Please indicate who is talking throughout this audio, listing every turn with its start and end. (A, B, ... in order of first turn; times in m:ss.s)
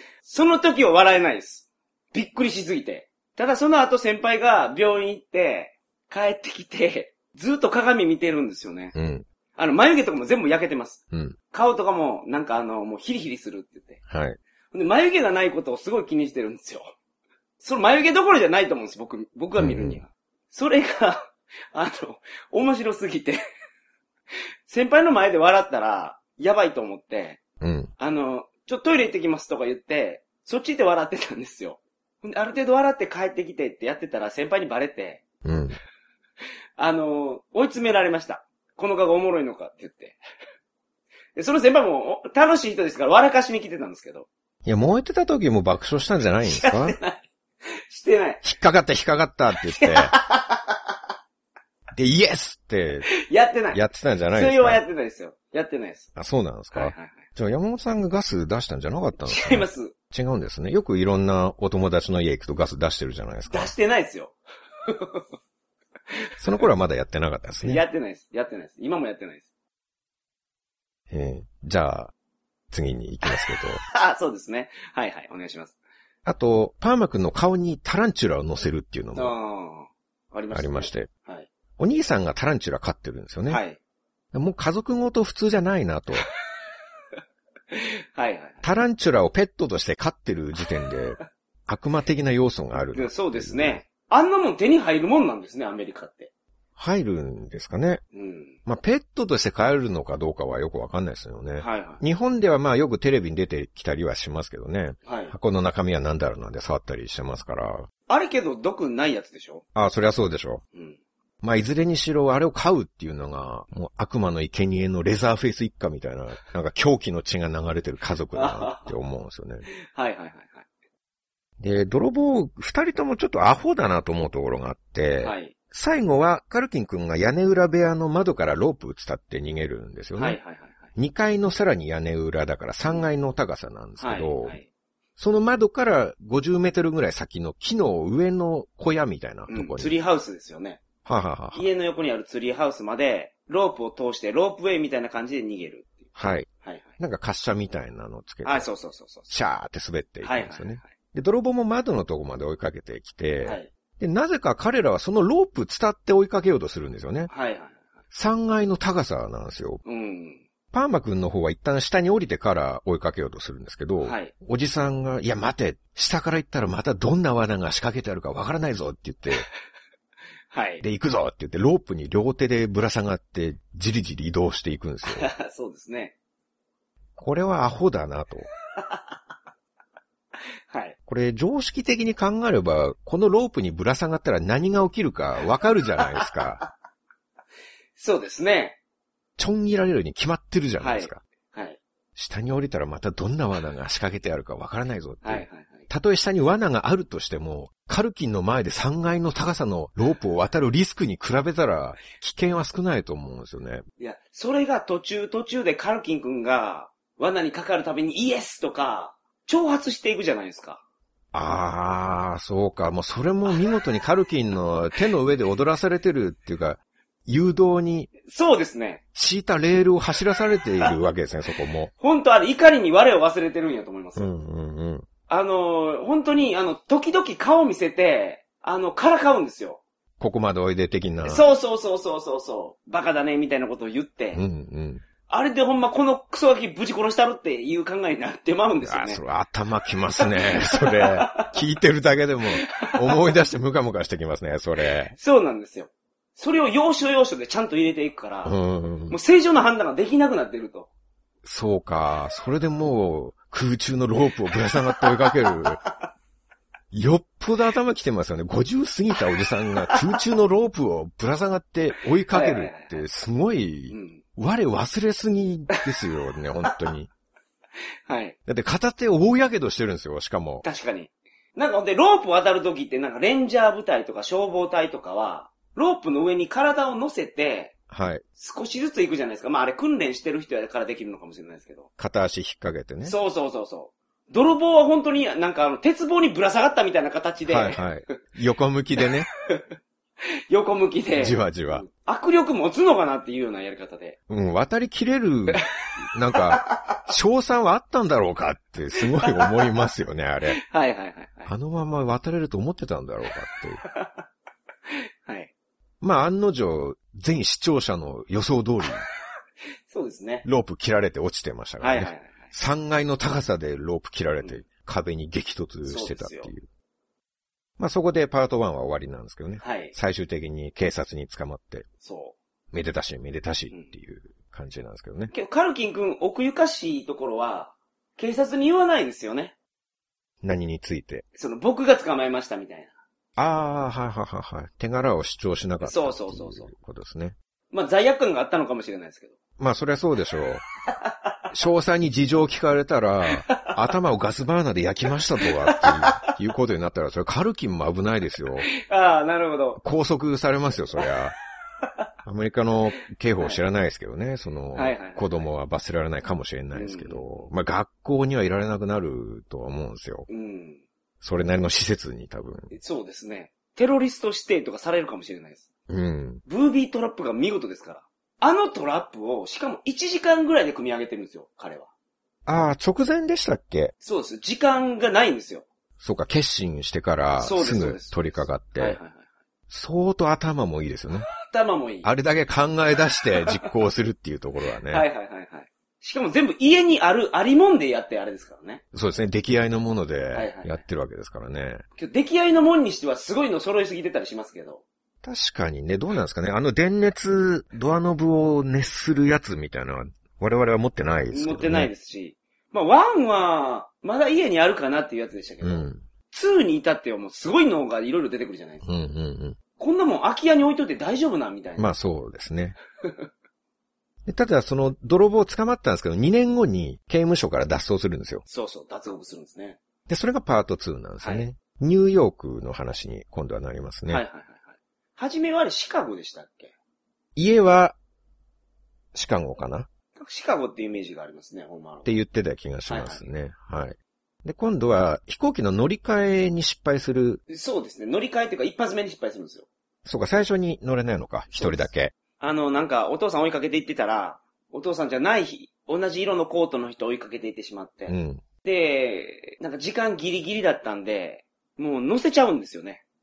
0:00.2-0:08.9 A
0:08.9-0:09.2 B
0:09.6-0:14.0 A
0:14.1-0:14.4 B
0:14.7-0:16.9 A
0:17.6-0:23.4 A
0:19.6-0:20.0 B
0:24.7-0:27.4 A
0:27.6-0:27.9 B
0:28.0-0:35.2 A
0:35.4-0:35.8 B
0:36.8-0:40.2 A
0:41.4-0:44.3 A
0:44.6-0:47.0 B
0:46.4-0:47.2 A
0:47.9-0:48.4 A
0:48.4-0:50.1 B
0:49.6-0:50.8 A
0:51.9-0:53.1 B
0:53.2-0:53.8 A
0:53.7-0:54.8 B
0:54.3-0:56.1 A
0:56.2-1:03.7 B
0:56.7-0:57.2 A
0:59.2-0:59.9 A
1:03.5-1:04.4 A
1:04.9-1:05.2 A
1:06.4-1:07.8 B
1:07.6-1:09.4 A
1:11.1-1:12.1 B
1:12.7-1:13.8 B
1:13.9-1:15.7 A
1:16.2-1:19.3 B
1:19.2-1:21.5 A
1:20.5-1:21.1 B
1:21.8-1:23.6 B
1:23.5-1:23.8 A
1:24.3-1:26.3 B
1:27.7-1:28.6 A
1:28.6-1:33.8 B
1:32.9-1:36.3 A
1:36.8-1:38.0 B
1:38.1-1:38.6 A
1:38.7-1:47.9 B
1:41.6-1:42.0 A
1:45.0-1:45.3 A
1:48.1-1:49.6 A
1:49.8-1:50.6 B
1:51.4-1:59.7 B
1:58.3-1:58.9 A
1:59.9-2:00.6 A
2:01.6-2:10.4 B
2:05.2-2:05.5 A
2:10.2-2:10.9 A
2:11.0-2:14.6 B
2:14.0-2:14.6 A
2:15.2-2:19.9 B
2:19.5-2:20.8 A
2:21.0-2:21.6 B
2:21.5-2:26.1 A
2:26.2-2:28.7 B
2:26.6-2:26.9 A
2:28.4-2:29.3 A
2:29.3-2:37.3 B
2:30.2-2:30.9 A
2:33.4-2:33.7 A
2:37.3-2:37.8 A
2:38.1-2:39.8 B
2:39.8-2:40.4 A
2:40.7-2:49.5 B
2:44.0-2:44.3 A
2:50.5-2:50.8 A
2:50.8-2:55.3 B
2:55.0-2:56.1 A
2:57.2-2:58.5 B
3:00.7-3:01.0 A
3:01.1-3:06.6 B
3:06.2-3:06.7 A
3:08.0-3:08.8 A
3:09.4-3:11.2 B
3:10.8-3:11.8 A
3:12.2-3:23.8 B
3:15.2-3:15.9 A
3:24.0-3:30.8 A
3:31.3-3:38.1 B
3:38.2-3:39.0 A
3:39.1-3:41.9 B
3:42.0-3:44.3 A
3:44.2-3:45.1 B
3:45.3-3:49.8 A
3:50.2-3:51.5 B
3:51.2-3:54.4 A
3:54.3-3:55.0 B
3:55.3-3:59.2 A
3:58.8-4:05.2 B
4:00.2-4:01.6 A
4:02.6-4:03.2 A
4:05.1-4:08.6 A
4:08.4-4:09.2 B
4:09.1-4:10.9 A
4:11.4-4:15.8 B
4:16.9-4:27.1 B
4:22.3-4:23.0 A
4:23.9-4:24.2 A
4:28.1-4:28.4 A
4:28.5-4:30.6 B
4:30.6-4:37.7 A
4:37.9-4:38.2 B
4:38.4-4:41.9 A
4:42.0-4:43.2 B
4:43.0-4:48.2 A
4:47.5-4:49.3 B
4:50.5-4:54.2 A
4:51.2-4:51.9 B
4:54.3-5:00.6 B
4:56.5-4:57.0 A
4:59.2-4:59.5 A
5:00.5-5:01.5 A
5:01.5-5:03.8 B
5:03.9-5:04.2 A
5:05.2-5:05.5 A
5:06.0-5:09.1 B
5:09.9-5:10.4 A
5:10.4-5:16.7 B
5:11.8-5:12.5 A
5:15.8-5:16.5 A
5:17.8-5:21.9 B
5:19.6-5:20.0 A
5:22.0-5:22.4 A
5:22.7-5:25.3 B
5:25.3-5:29.5 A
5:30.4-5:31.2 B
5:31.4-5:32.9 A
5:33.4-5:37.4 B
5:35.8-5:36.7 A
5:37.7-5:39.4 A
5:39.6-5:40.6 B
5:41.5-5:48.7 B
5:43.5-5:43.8 A
5:45.5-5:46.3 A
5:48.8-5:49.8 A
5:49.8-5:51.4 B
5:52.2-6:00.3 B
5:54.8-5:55.5 A
5:56.7-5:57.5 A
6:00.3-6:00.8 A
6:01.2-6:02.7 B
6:02.7-6:05.6 A
6:05.9-6:06.4 B
6:06.5-6:11.9 A
6:12.5-6:13.9 B
6:14.0-6:15.7 A
6:16.0-6:19.0 B
6:17.4-6:19.2 A
6:19.7-6:21.3 B
6:21.4-6:22.1 A
6:22.0-6:25.1 B
6:24.9-6:28.8 A
6:28.9-6:31.8 B
6:30.3-6:30.8 A
6:32.0-6:34.8 A
6:35.2-6:41.9 B
6:41.3-6:48.8 A
6:45.6-6:46.0 B
6:48.8-6:49.6 B
6:49.8-6:52.0 A
6:51.8-6:52.8 B
6:54.2-6:58.4 B
6:58.5-6:59.8 A
7:00.1-7:04.2 B
7:01.2-7:01.4 A
7:04.1-7:06.7 A
7:07.4-7:08.0 B
7:09.1-7:09.9 B
7:10.2-7:12.2 A
7:12.0-7:17.4 B
7:12.9-7:13.3 A
7:17.5-7:19.7 A
7:20.0-7:22.1 B
7:21.5-7:33.0 A
7:28.1-7:28.4 B